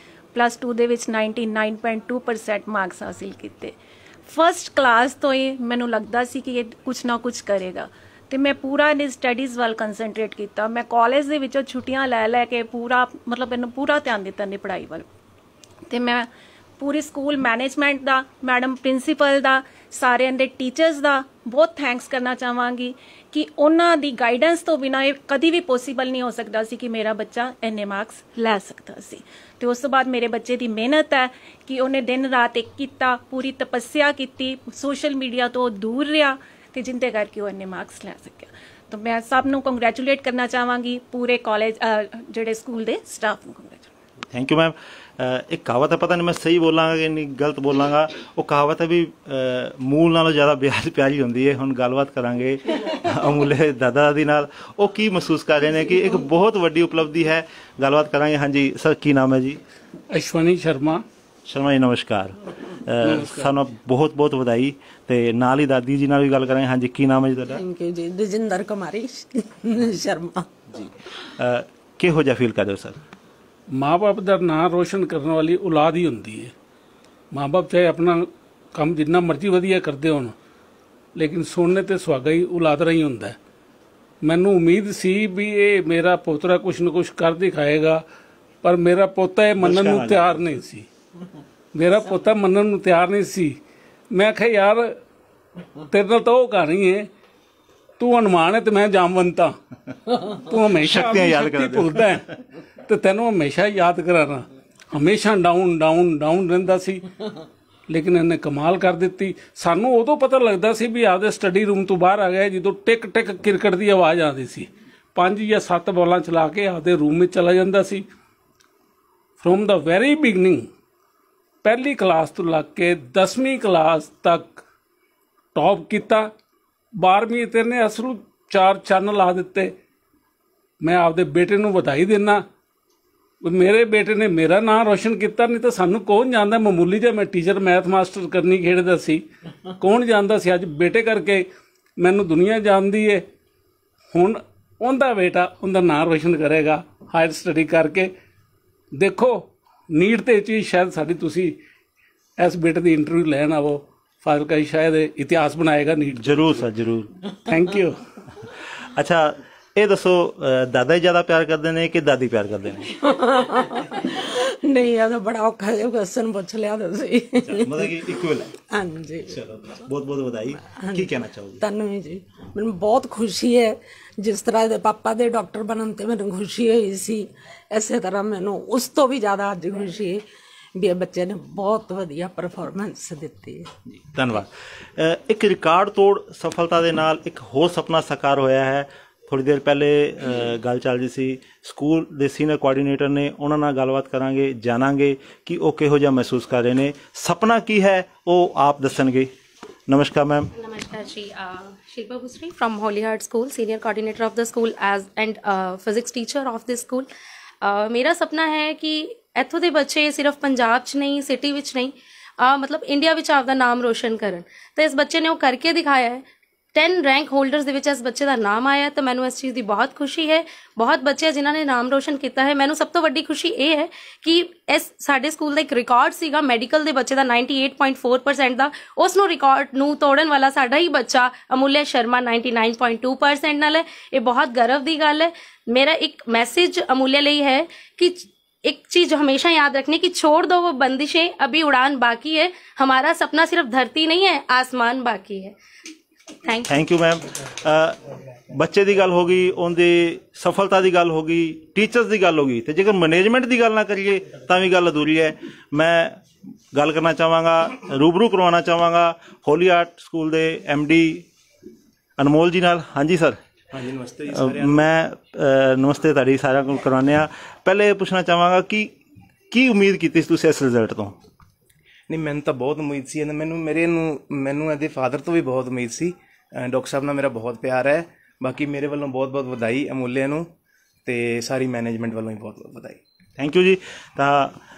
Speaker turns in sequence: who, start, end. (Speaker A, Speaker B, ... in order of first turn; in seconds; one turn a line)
Speaker A: 0.3-3.8
Speaker A: 4.3-15.1
Speaker A: 15.9-16.3
Speaker A: 16.8-43.9
Speaker B: 44.3-59.6
Speaker C: 60.1-61.0
Speaker B: 61.5-67.6
Speaker C: 63.0-63.5
Speaker D: 67.5-70.4
Speaker B: 70.8-73.0
Speaker C: 73.7-76.5
Speaker C: 77.3-80.3
Speaker C: 81.2-83.4
Speaker C: 84.2-88.0
Speaker C: 88.6-90.9
Speaker B: 89.6-90.4
Speaker C: 91.7-93.6
Speaker C: 94.1-95.0
Speaker C: 95.9-97.1
Speaker C: 98.0-99.6
Speaker C: 100.1-102.3
Speaker B: 100.7-102.2
Speaker C: 102.9-107.0
Speaker C: 107.9-118.1
Speaker C: 119.4-120.7
Speaker C: 121.6-124.6
Speaker C: 125.6-126.3
Speaker C: 127.0-129.7
Speaker C: 130.8-132.4
Speaker C: 133.4-139.2
Speaker C: 139.8-141.5
Speaker C: 142.0-143.2
Speaker C: 144.1-148.1
Speaker C: 148.9-151.6
Speaker C: 152.4-156.6
Speaker B: 156.2-157.1
Speaker C: 157.5-158.0
Speaker B: 158.9-162.9
Speaker D: 164.7-167.7
Speaker B: 167.4-168.5
Speaker D: 168.8-169.3
Speaker B: 169.3-171.6
Speaker D: 171.6-173.7
Speaker D: 174.2-180.2
Speaker D: 180.8-183.7
Speaker B: 184.0-199.3
Speaker B: 199.9-200.5
Speaker E: 200.6-207.1
Speaker E: 207.6-245.6
Speaker E: 246.4-246.8
Speaker B: 246.7-247.9
Speaker B: 248.5-256.1
Speaker B: 256.7-261.3
Speaker B: 262.2-263.4
Speaker F: 263.7-264.9
Speaker B: 264.3-268.9
Speaker B: 269.5-271.2
Speaker F: 272.1-280.5
Speaker F: 281.1-283.0
Speaker B: 283.4-284.5